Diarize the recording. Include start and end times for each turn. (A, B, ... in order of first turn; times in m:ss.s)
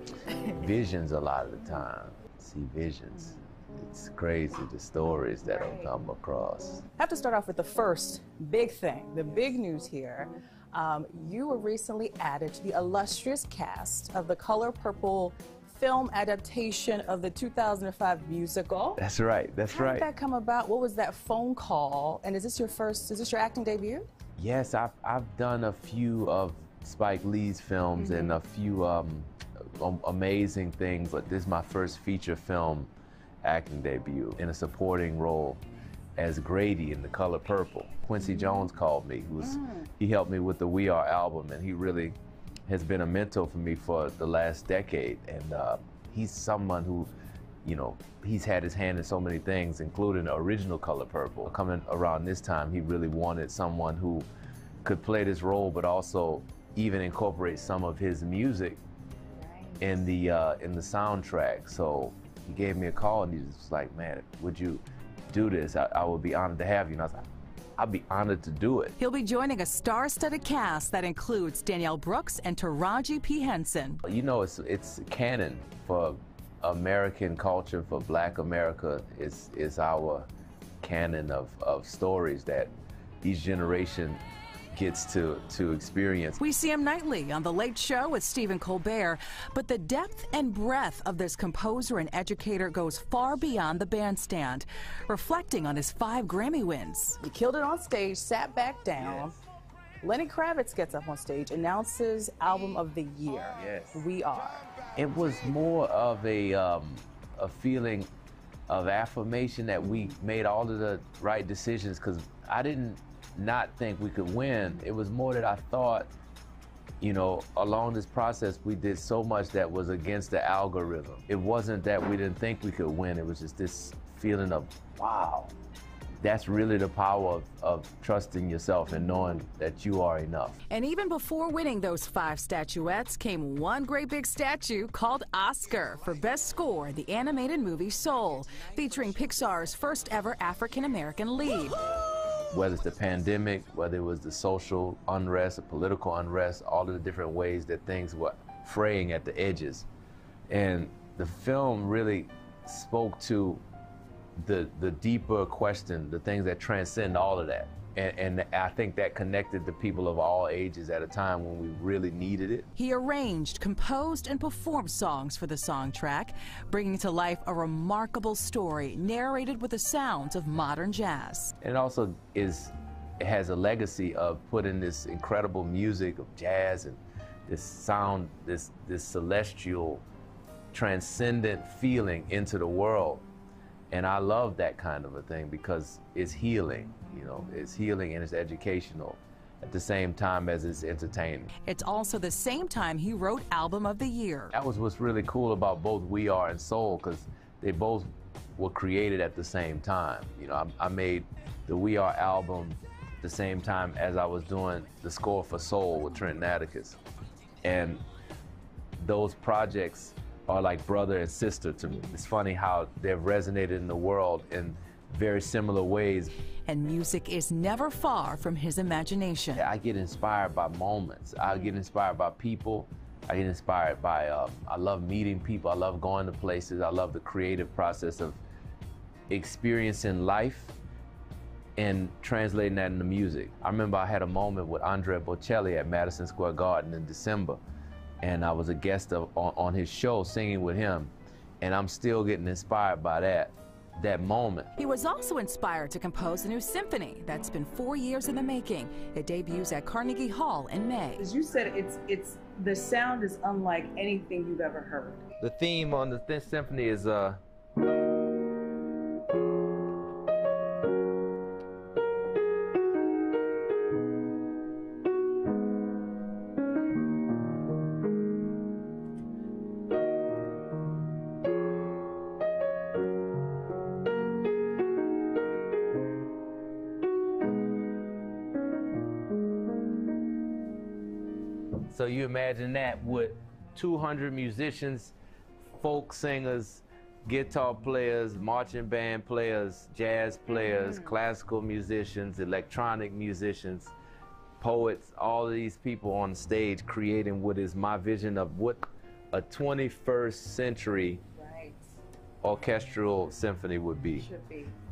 0:00.4-0:06.8 A
0:06.9-0:19.0 B
0:19.0-0:20.1 A
0:19.7-0:24.1 B
0:24.4-0:32.9 A
0:28.0-0:28.4 B
0:33.4-0:35.6 A
0:36.2-0:42.2 A
0:42.7-0:47.1 A
0:47.6-0:54.2 A
0:54.8-0:58.8 A
0:59.5-0:59.7 B
0:59.8-1:07.2 A
1:07.8-1:08.9 A
1:09.0-1:14.0 C
1:14.0-1:20.3 A
1:20.8-1:24.2 A
1:24.7-1:26.4 A
1:26.4-1:37.2 C
1:37.2-1:39.4 B
1:39.0-1:39.4 A
1:40.0-1:44.7 B
1:43.5-1:44.1 A
1:44.9-1:48.1 A
1:48.7-1:56.1 A
1:57.0-2:05.5 A
2:06.2-2:10.6 A
2:10.7-2:21.8 C
2:22.5-2:29.9 A
2:30.5-2:33.6 A
2:34.4-2:42.7 A
2:42.8-2:51.5 C
2:51.6-3:00.0 A
3:00.7-3:03.2 A
3:03.9-3:11.5 A
3:11.6-3:14.5 C
3:14.5-3:27.0 A
3:27.6-3:28.0 A
3:29.0-3:36.3 A
3:36.6-3:39.6 C
3:39.5-3:48.4 A
3:49.3-3:50.8 A
3:51.8-3:57.6 A
3:58.2-4:04.7 A
4:04.8-4:11.2 C
4:11.2-4:15.2 B
4:15.4-4:17.4 A
4:41.9-4:45.1 A
4:45.7-4:53.9 A
4:54.6-5:01.2 A
5:01.4-5:01.8 B
5:02.4-5:04.3 A
5:04.2-5:04.7 B